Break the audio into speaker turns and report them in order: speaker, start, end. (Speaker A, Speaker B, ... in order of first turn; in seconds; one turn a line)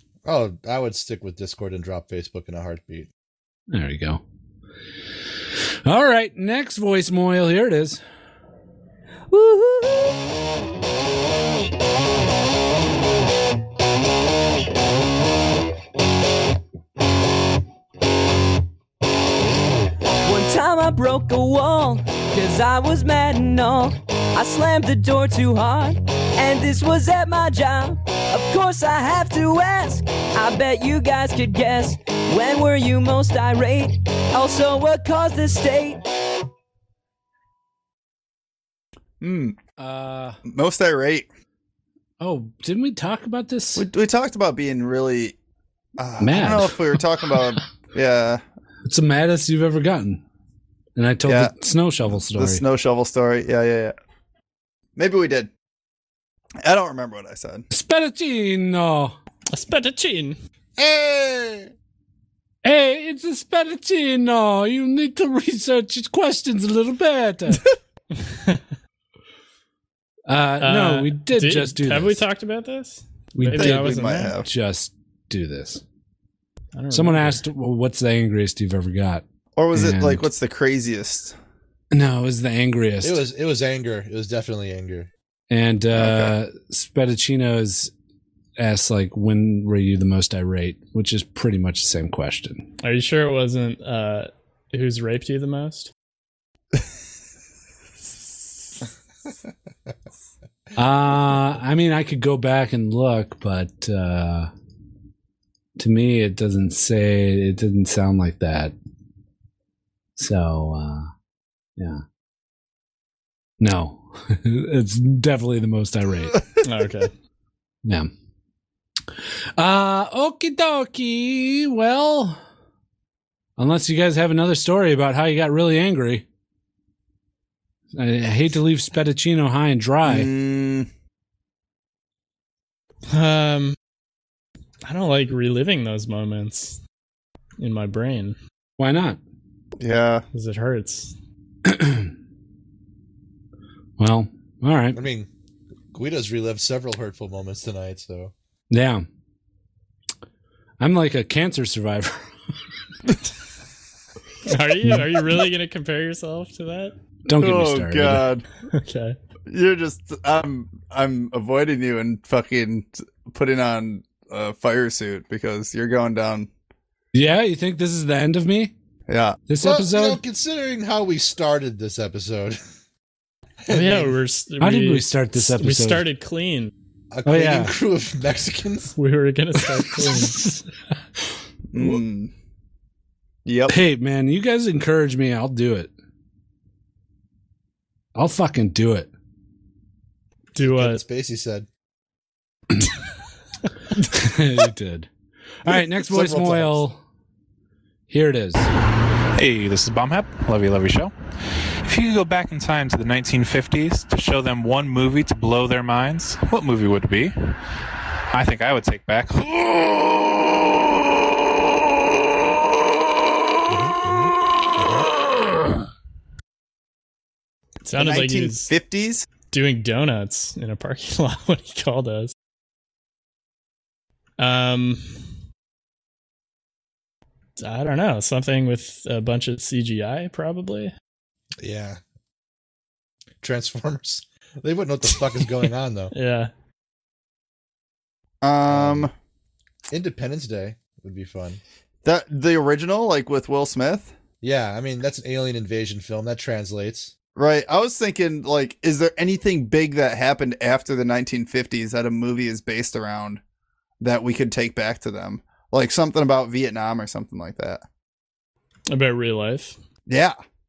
Speaker A: 0.2-3.1
Speaker B: 3.7-4.2
Speaker B: 5.8-8.0
Speaker C: 9.3-10.2
Speaker C: 20.2-36.0
Speaker D: 39.2-39.6
Speaker B: 39.8-40.4
Speaker D: 40.5-41.3
Speaker B: 42.2-43.9
Speaker D: 43.8-45.4
Speaker D: 46.0-48.4
Speaker B: 46.2-46.8
Speaker B: 48.9-50.2
Speaker B: 51.0-52.6
Speaker D: 51.2-51.5
Speaker D: 52.1-54.0
Speaker D: 55.0-55.5
Speaker D: 56.6-57.7
Speaker B: 57.7-59.2
Speaker E: 59.5-60.4
Speaker A: 60.8-61.7
Speaker B: 62.6-67.7
Speaker E: 68.2-68.6
Speaker B: 70.3-72.2
Speaker E: 70.6-74.3
Speaker B: 73.3-75.8
Speaker D: 73.5-74.5
Speaker E: 76.7-77.4
Speaker B: 76.9-80.3
Speaker D: 79.6-81.4
Speaker B: 81.9-83.2
Speaker A: 83.0-85.1
Speaker B: 85.5-87.9
Speaker D: 86.0-86.3
Speaker B: 88.6-92.7
Speaker E: 92.8-95.9
Speaker B: 100.8-104.5
Speaker B: 105.8-108.7
Speaker B: 110.2-111.1
Speaker B: 111.8-112.0
Speaker B: 113.6-116.4
Speaker E: 116.6-117.1
Speaker B: 117.8-118.1
Speaker B: 119.6-122.4
Speaker B: 123.6-126.2
Speaker B: 127.9-130.3
Speaker D: 130.1-130.9
Speaker E: 133.1-133.8
Speaker E: 134.8-136.8
Speaker E: 137.6-138.4
Speaker B: 138.8-139.2
Speaker D: 139.8-140.2
Speaker E: 140.3-141.2
Speaker B: 141.7-142.1
Speaker B: 144.0-145.0
Speaker A: 144.9-145.3
Speaker A: 145.9-148.3
Speaker B: 148.7-149.1
Speaker B: 150.8-152.2
Speaker E: 154.5-156.9
Speaker B: 157.3-158.2
Speaker D: 157.4-158.5
Speaker E: 158.7-159.2
Speaker D: 159.5-166.5
Speaker B: 167.1-168.7
Speaker D: 169.1-169.4
Speaker B: 169.5-170.2
Speaker A: 169.6-172.6
Speaker A: 173.7-174.2
Speaker E: 173.7-176.7
Speaker B: 174.6-176.0
Speaker A: 177.1-178.9
Speaker B: 177.3-177.7
Speaker E: 179.0-180.6
Speaker D: 181.7-182.3
Speaker D: 183.4-183.8
Speaker B: 183.7-185.9
Speaker B: 188.2-189.1
Speaker E: 190.6-191.0
Speaker A: 190.6-191.7
Speaker B: 194.1-195.1
Speaker B: 195.6-197.0
Speaker A: 196.0-196.9
Speaker B: 198.1-198.7
Speaker F: 199.3-207.6
Speaker F: 208.3-209.5
Speaker A: 213.7-215.1
Speaker E: 217.9-218.7
Speaker D: 217.9-219.3
Speaker E: 219.5-222.3
Speaker E: 224.4-225.2
Speaker E: 227.6-230.9
Speaker A: 231.6-232.0
Speaker A: 233.4-236.1
Speaker E: 236.1-236.5
Speaker D: 238.4-239.1
Speaker A: 238.7-239.1
Speaker A: 239.9-241.6
Speaker D: 242.1-244.2
Speaker A: 244.4-247.1
Speaker D: 247.4-253.4
Speaker D: 254.0-257.8
Speaker E: 258.9-259.8
Speaker D: 260.1-260.4